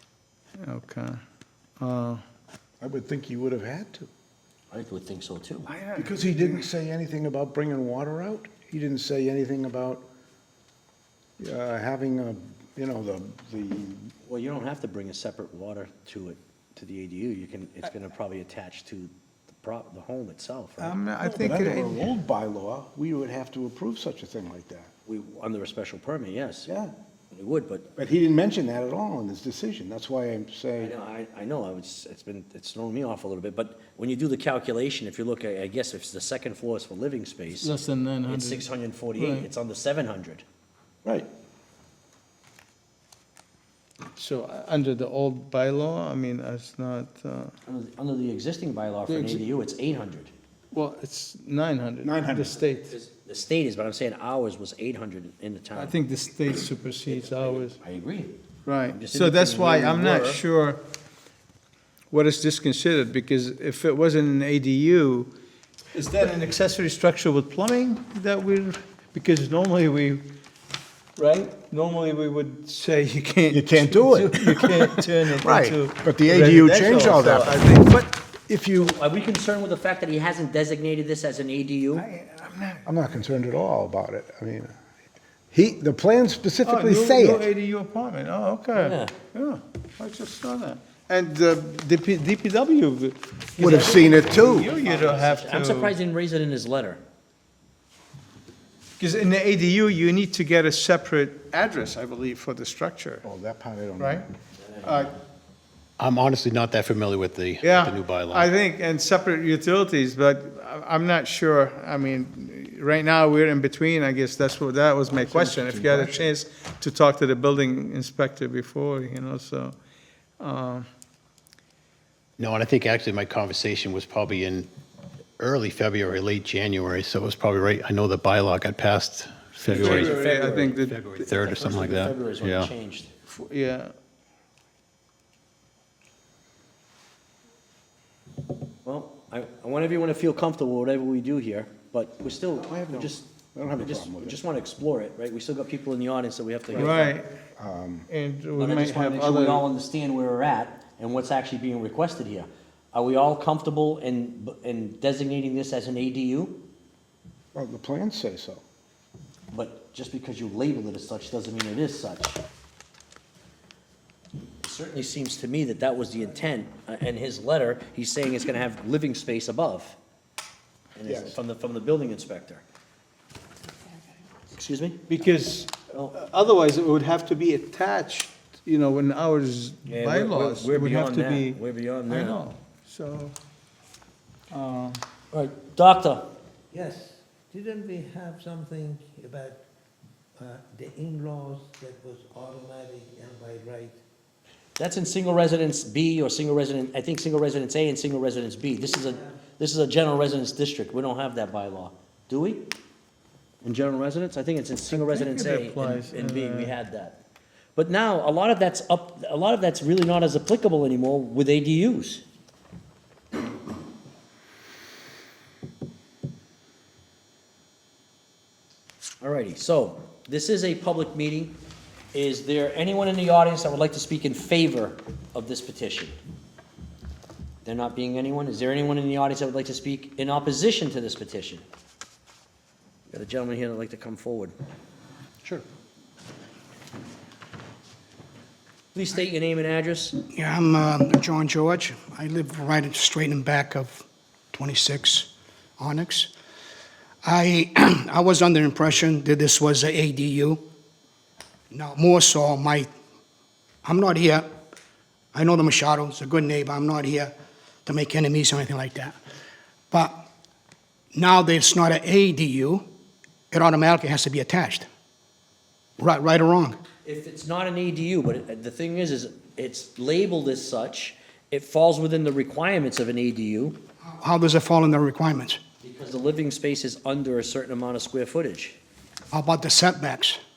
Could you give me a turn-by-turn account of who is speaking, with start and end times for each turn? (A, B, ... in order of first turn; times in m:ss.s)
0:00.6-0:01.2 A
0:01.8-0:02.2 A
0:02.8-0:04.1 B
0:04.7-0:05.7 C
0:05.7-0:06.7 A
0:06.0-0:10.1 B
0:11.4-0:14.1 B
0:14.2-0:21.0 C
0:20.8-0:22.0 A
0:21.2-0:24.9 B
0:25.1-0:26.7 C
0:27.3-0:27.9 C
0:28.0-0:31.0 B
0:30.8-0:37.7 C
0:37.6-0:38.6 A
0:38.3-0:40.4 C
0:39.2-0:39.5 A
0:44.2-0:47.5 A
0:47.7-0:50.3 C
0:49.1-0:49.4 A
0:50.7-0:52.9 A
0:52.0-0:52.6 B
0:52.8-0:56.0 C
0:55.8-0:57.8 A
0:57.1-0:58.4 C
0:58.7-1:00.8 A
0:58.9-1:00.4 C
1:02.1-1:05.3 A
1:05.9-1:10.3 A
1:11.2-1:18.2 A
1:13.5-1:17.8 B
1:18.5-1:19.0 B
1:18.8-1:22.1 C
1:22.0-1:22.9 A
1:22.8-1:24.7 B
1:25.5-1:27.5 B
1:26.6-1:36.0 A
1:28.8-1:29.1 C
1:33.6-1:37.0 C
1:33.6-1:34.7 B
1:39.0-1:43.2 A
1:43.2-1:44.2 B
1:44.0-1:44.3 A
1:44.6-1:45.1 C
1:44.8-1:45.1 A
1:46.0-1:48.5 D
1:47.6-1:59.8 A
1:55.1-1:56.3 B
2:00.4-2:00.9 A
2:02.4-2:04.7 D
2:05.4-2:10.2 D
2:09.7-2:10.8 C
2:09.7-2:11.3 A
2:10.8-2:12.7 D
2:11.4-2:13.1 C
2:13.3-2:13.9 A
2:18.8-2:27.1 C
2:22.6-2:24.4 B
2:26.8-2:27.4 A
2:27.6-2:28.1 B
2:28.1-2:29.6 A
2:28.6-2:36.6 C
2:37.5-2:38.6 B
2:39.5-2:42.4 C
2:44.6-2:50.0 C
2:51.0-2:52.6 C
2:51.0-2:51.4 B
2:54.5-2:55.3 C
2:55.1-3:03.4 A
2:59.9-3:02.4 C
3:04.5-3:05.0 A
3:05.3-3:06.3 C
3:06.7-3:09.6 E
3:10.4-3:14.0 E
3:14.8-3:22.8 C
3:23.6-3:27.2 C
3:24.9-3:26.8 A
3:27.8-3:32.2 C
3:39.2-3:41.6 C
3:42.1-3:46.2 C
3:47.6-3:51.6 C
3:53.1-3:54.5 C
3:58.9-4:00.2 C
4:00.3-4:06.3 F
4:07.2-4:10.6 F
4:11.7-4:12.9 F
4:13.8-4:14.5 F
4:15.3-4:17.3 F
4:17.9-4:19.2 F
4:19.9-4:20.2 F
4:21.1-4:22.8 F
4:23.5-4:24.9 F
4:26.0-4:26.8 F
4:27.0-4:33.8 C
4:34.0-4:35.6 F
4:35.8-4:38.8 C
4:39.3-4:40.4 F